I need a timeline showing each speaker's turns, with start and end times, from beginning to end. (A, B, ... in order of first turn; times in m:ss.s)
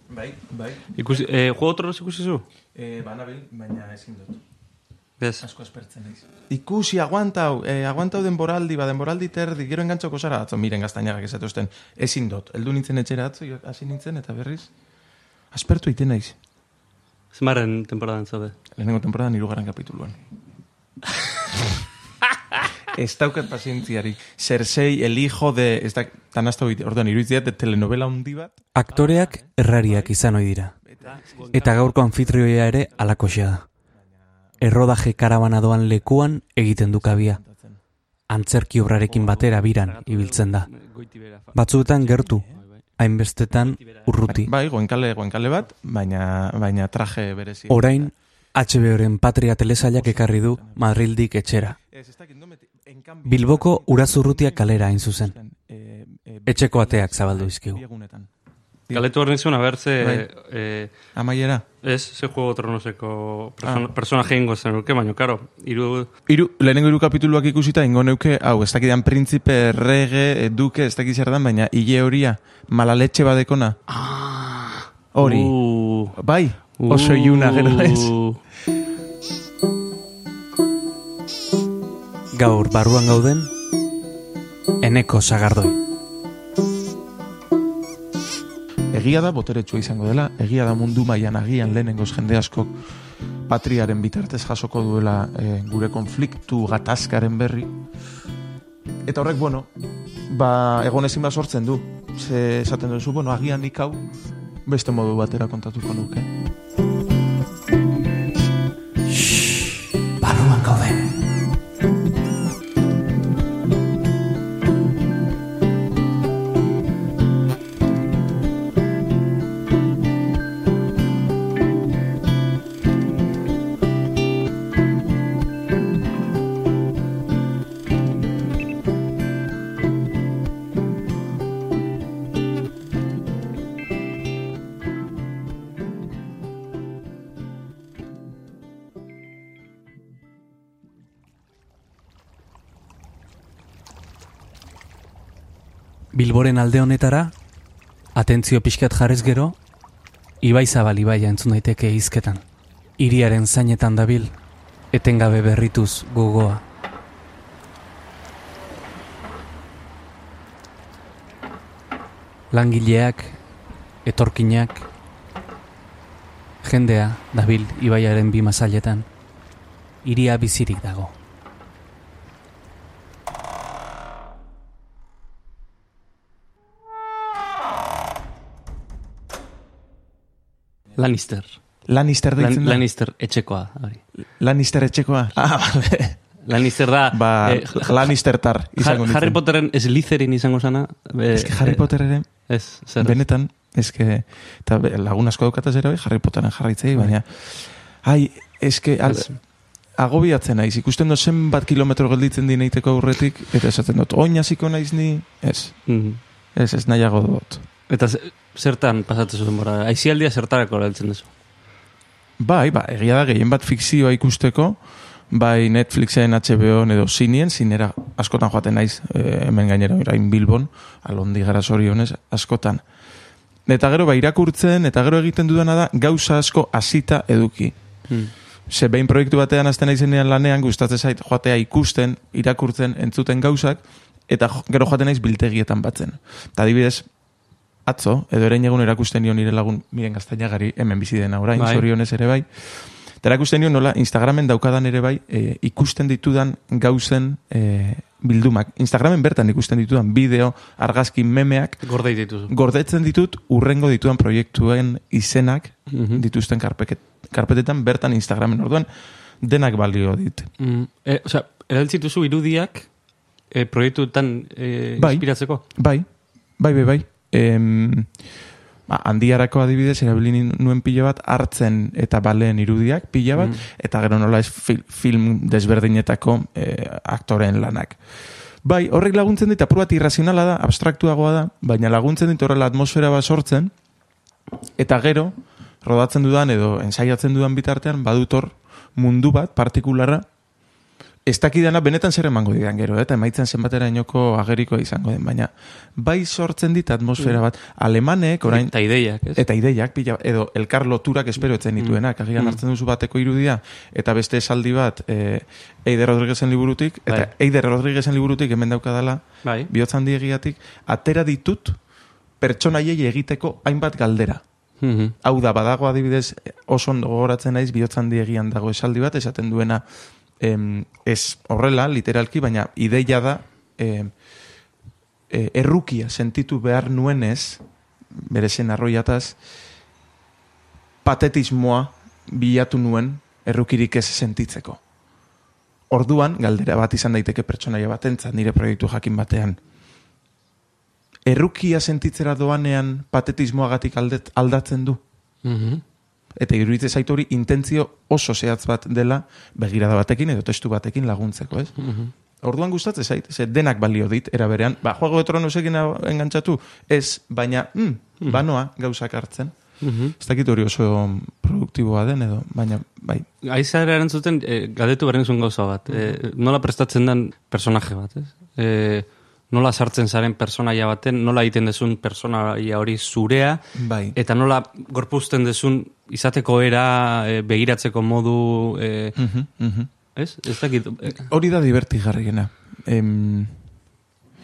0:00.1-0:01.0 A
0:01.0-0:02.4 B
0:02.8-0:04.4 A
0:05.2-0:05.5 B
0:05.4-0:14.7 A
0:15.5-0:16.4 A
0:17.3-0:18.6 B
0:18.8-0:20.2 A
0:22.9-0:28.6 A
0:28.8-0:30.8 C
0:28.9-0:29.5 B
0:30.9-0:33.4 A
0:31.0-0:32.1 B
0:31.5-0:33.7 C
0:34.0-0:34.8 A
0:34.6-0:37.4 C
0:36.9-0:37.8 A
0:38.3-0:40.7 C
0:39.1-0:42.8 B
0:41.6-0:42.4 C
0:42.1-0:42.6 A
0:43.0-0:44.5 C
0:43.5-0:44.1 B
0:44.3-0:48.1 A
0:47.7-0:51.8 C
0:49.9-0:50.9 A
0:51.9-0:58.3 A
0:53.2-0:55.4 C
0:56.5-0:57.8 C
0:58.9-1:00.9 B
1:00.0-1:00.3 A
1:01.1-1:01.7 A
1:01.8-1:06.1 B
1:03.6-1:03.9 A
1:06.3-1:13.8 A
1:13.9-1:16.2 B
1:15.1-1:15.6 A
1:16.1-1:18.2 A
1:16.8-1:18.4 B
1:22.3-1:23.5 C
1:24.8-1:25.8 C
1:28.9-1:32.8 A
1:33.5-1:37.8 A
1:39.0-1:39.7 A
1:40.3-1:44.1 A
1:44.6-1:46.3 A
1:49.1-1:51.2 C
2:26.1-2:27.3 C
2:28.2-2:29.6 C
2:30.4-2:32.4 C
2:33.0-2:34.3 C
2:34.9-2:36.6 C
2:42.5-2:43.4 C
2:44.0-2:44.9 C
2:46.6-2:49.1 C
2:50.0-2:51.1 C
3:01.0-3:01.6 B
3:01.9-3:02.8 A
3:02.4-3:04.0 B
3:04.4-3:06.2 A
3:06.4-3:08.2 B
3:07.1-3:09.4 A
3:08.8-3:11.9 B
3:11.3-3:12.3 A
3:12.5-3:13.2 B
3:13.0-3:19.4 A
3:19.1-3:19.4 B
3:20.0-3:25.8 A
3:25.9-3:26.2 B
3:26.6-3:27.6 A
3:27.9-3:31.3 B
3:32.4-3:34.8 A
3:35.3-3:42.8 A
3:43.7-3:48.0 A
3:48.7-3:57.1 A
3:57.8-4:11.9 A
4:01.6-4:01.9 B
4:11.8-4:12.5 B
4:12.5-4:18.9 A
4:15.9-4:16.2 B
4:19.4-4:20.5 A
4:20.6-4:22.9 B
4:23.5-4:25.6 B
4:25.0-4:26.1 A
4:26.6-4:28.1 A
4:28.9-4:38.0 A
4:38.6-4:43.7 A
4:44.8-4:50.3 A
4:51.3-4:58.7 A
4:58.5-4:59.4 B
4:59.3-5:11.8 A
5:01.8-5:02.6 B
5:09.4-5:09.7 B
5:12.4-5:14.4 A
5:14.8-5:15.2 B
5:15.2-5:19.8 A
5:20.4-5:24.1 A
5:25.3-5:27.6 A
5:28.1-5:29.4 A
5:31.0-5:34.8 A
5:35.9-5:39.6 A
5:41.3-5:45.0 A
5:45.4-5:45.8 B
5:46.4-5:51.8 A
5:51.8-5:52.1 B
5:52.4-5:59.5 A
5:59.8-6:00.2 B
6:00.2-6:03.3 A
6:03.4-6:13.6 B
6:05.9-6:06.2 A
6:13.8-6:14.2 A
6:14.2-6:19.2 B
6:19.2-6:19.9 A
6:20.2-6:21.3 B
6:21.1-6:23.6 A